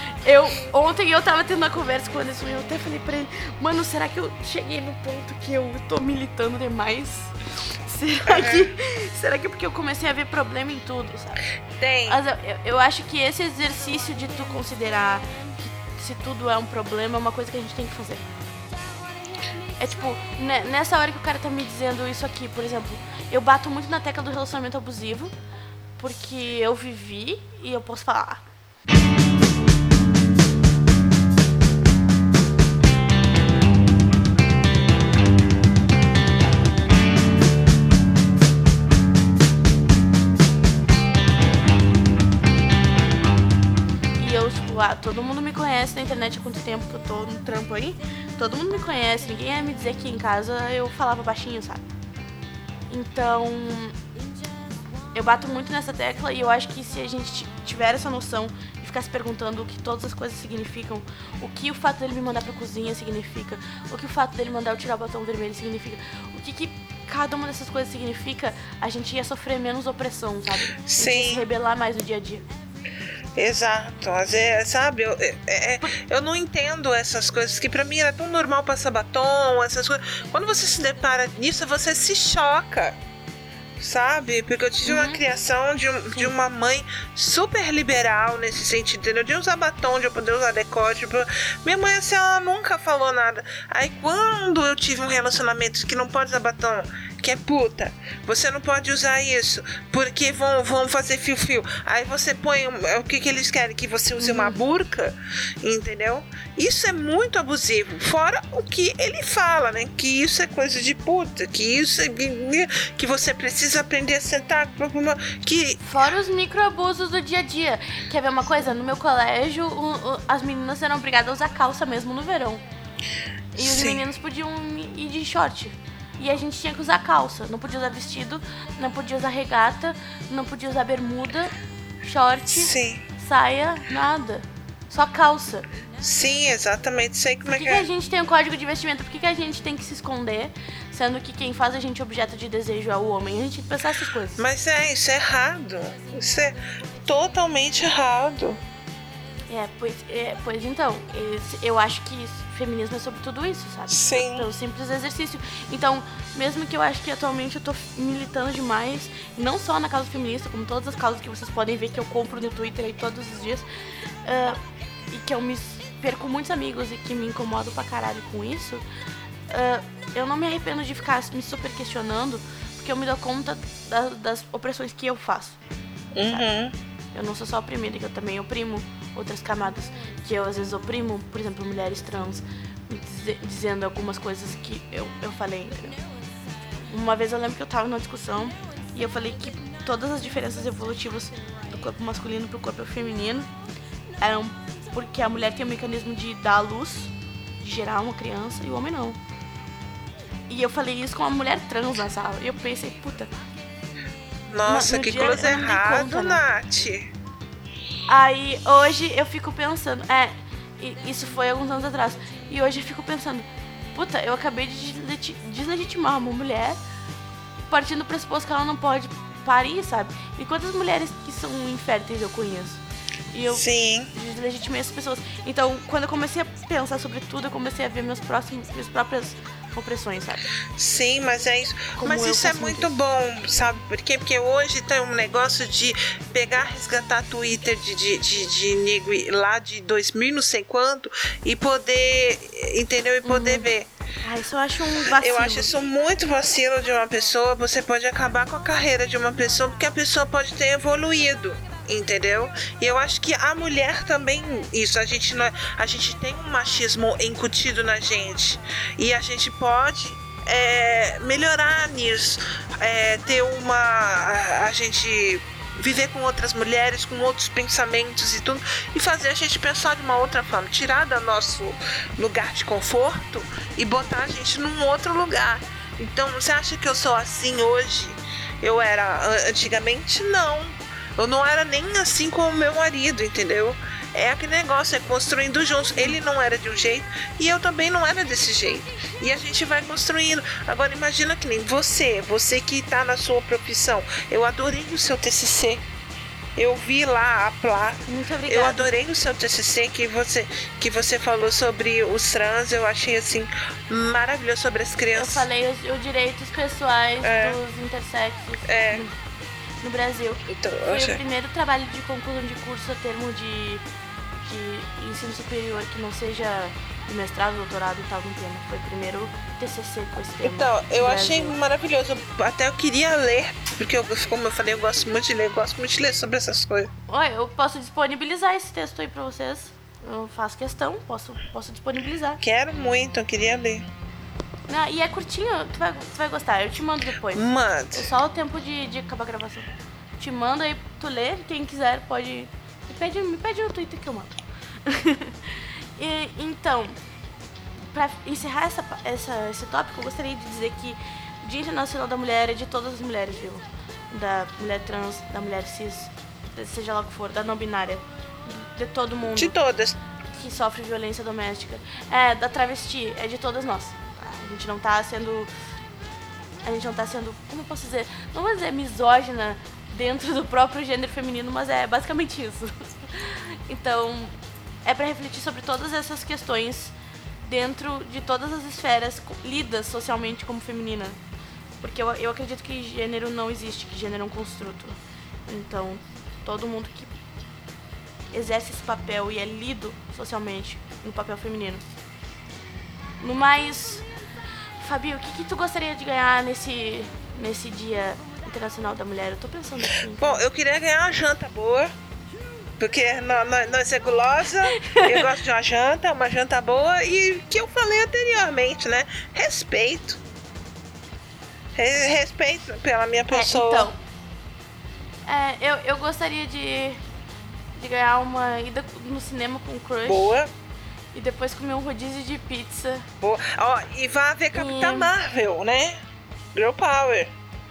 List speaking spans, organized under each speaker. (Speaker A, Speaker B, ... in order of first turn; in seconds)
Speaker A: 0.2-11.4, 12.1-18.2, 19.8-25.3, 26.0-28.4, 44.2-51.8, 52.9-54.0, 55.1-72.5, 84.8-85.2, 104.2-104.6, 115.8-122.6, 123.5-135.6, 137.4-144.4, 149.5-163.7, 164.2-168.8, 169.5-175.6, 177.1-186.0, 186.9-193.5, 194.2-199.2, 200.5-203.3, 204.7-206.4, 208.1-216.8, 217.7-230.5, 232.0-232.9, 243.2-243.7, 244.2-245.7, 298.1-298.9, 305.1-309.1, 309.8-313.8, 314.4-321.6, 327.1-332.4, 334.7-347.0, 347.9-359.6, 360.3-365.5, 366.6-376.9, 377.4-381.2, 381.8-387.1, 388.3-391.9, 393.2-394.0, 394.8-400.4, 404.8-405.3, 413.3-413.9, 415.2-417.0, 417.7-420.4, 421.1-423.1, 424.5-425.1
Speaker B: 8.3-8.7, 11.8-12.2, 70.8-71.4, 73.3-83.0, 83.8-115.8, 123.5-124.0, 132.5-133.0, 136.0-137.9, 144.3-148.6, 153.9-154.5, 176.1-176.7, 204.5-207.1, 223.5-224.1, 230.7-243.9, 245.0-295.8, 296.6-305.5, 307.2-307.6, 308.6-309.1, 310.5-311.2, 320.4-326.9, 332.4-333.9, 337.3-338.1, 359.2-360.0, 400.1-401.9, 402.8-410.2, 411.7-413.9, 420.0-420.5, 423.2-426.0, 426.5-427.3